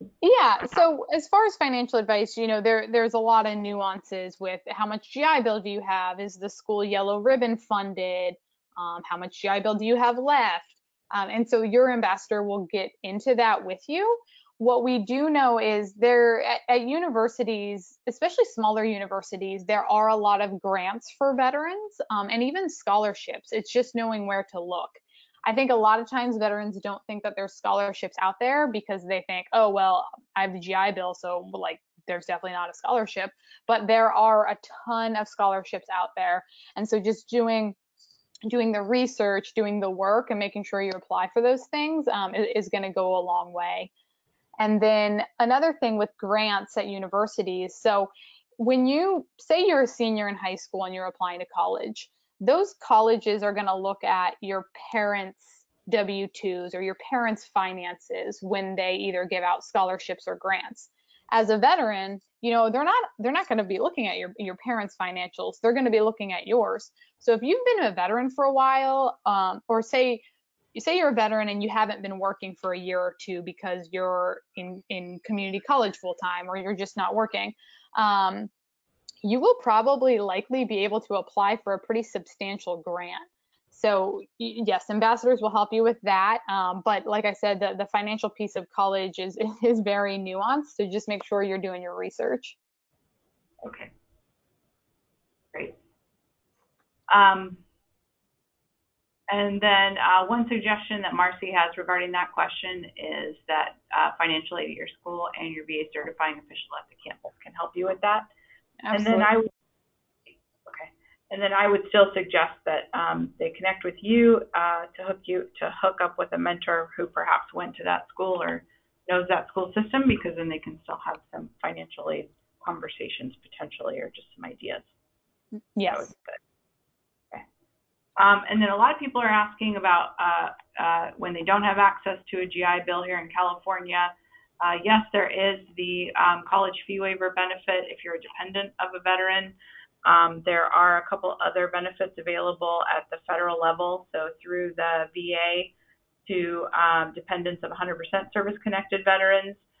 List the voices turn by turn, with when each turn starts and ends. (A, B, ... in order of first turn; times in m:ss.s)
0:00.2-0:37.8 A
0:38.4-0:43.9 A
0:44.6-1:18.5 A
1:19.2-1:32.6 A
1:33.6-1:33.9 B
1:37.1-1:37.6 B
1:39.3-1:48.3 B
1:48.8-1:49.3 A
1:48.9-1:49.5 B
1:50.6-2:04.9 B
2:05.8-2:06.1 A
2:05.9-2:06.4 B
2:08.2-2:25.7 B
2:26.2-2:29.6 B